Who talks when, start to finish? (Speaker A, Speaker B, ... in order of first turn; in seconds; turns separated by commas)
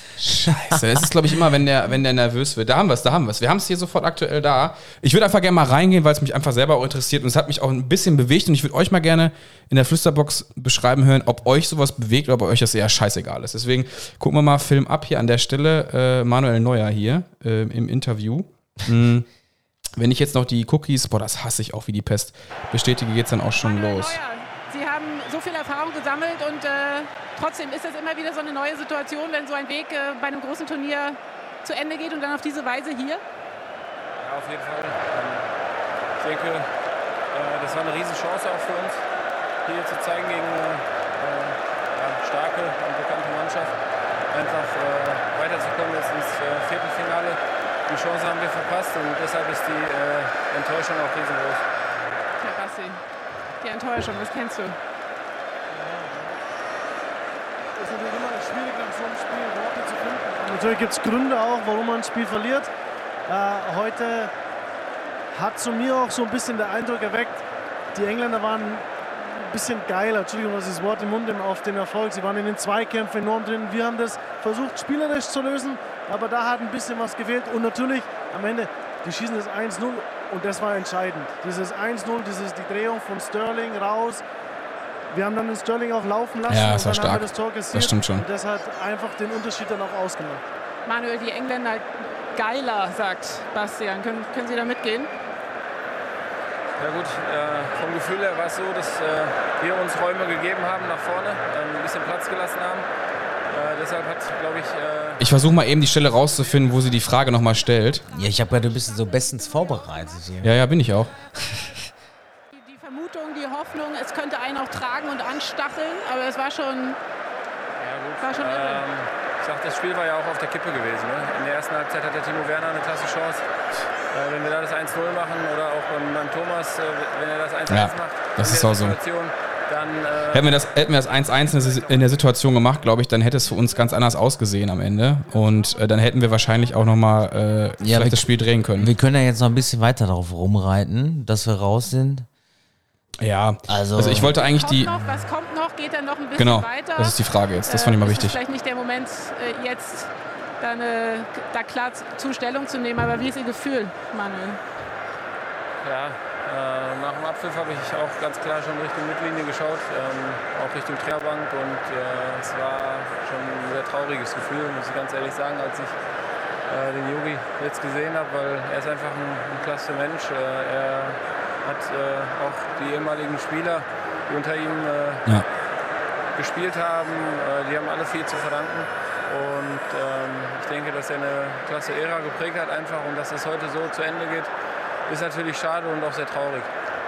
Speaker A: 0.2-19.2, Speaker B: 0.5-1.0, Speaker A: 20.0-24.2, Speaker C: 23.6-33.2, Speaker D: 34.2-35.4, Speaker D: 36.2-36.6, Speaker D: 37.3-39.0, Speaker D: 39.6-43.7, Speaker D: 44.3-51.6, Speaker C: 52.4-53.0, Speaker C: 53.6-54.8, Speaker E: 55.7-56.4, Speaker E: 57.8-62.7, Speaker E: 63.3-64.3, Speaker E: 65.3-67.4, Speaker E: 67.9-68.9, Speaker E: 69.5-84.2, Speaker E: 85.1-90.4, Speaker A: 86.5-88.2, Speaker C: 90.8-95.1, Speaker D: 96.8-102.8, Speaker D: 103.5-105.2, Speaker A: 105.2-108.0, Speaker B: 108.1-110.5, Speaker A: 110.4-111.1, Speaker C: 111.4-111.7, Speaker C: 112.5-117.0, Speaker D: 117.8-123.4, Speaker C: 118.2-118.8, Speaker D: 124.1-130.5, Speaker A: 127.7-129.0, Speaker A: 130.3-138.9, Speaker B: 137.8-138.2, Speaker B: 138.8-142.2, Speaker A: 143.2-144.9, Speaker B: 143.7-144.3, Speaker C: 144.3-154.6, Speaker A: 146.3-148.4, Speaker D: 155.8-165.9, Speaker D: 166.7-175.2, Speaker D: 176.3-184.5, Speaker D: 185.1-186.7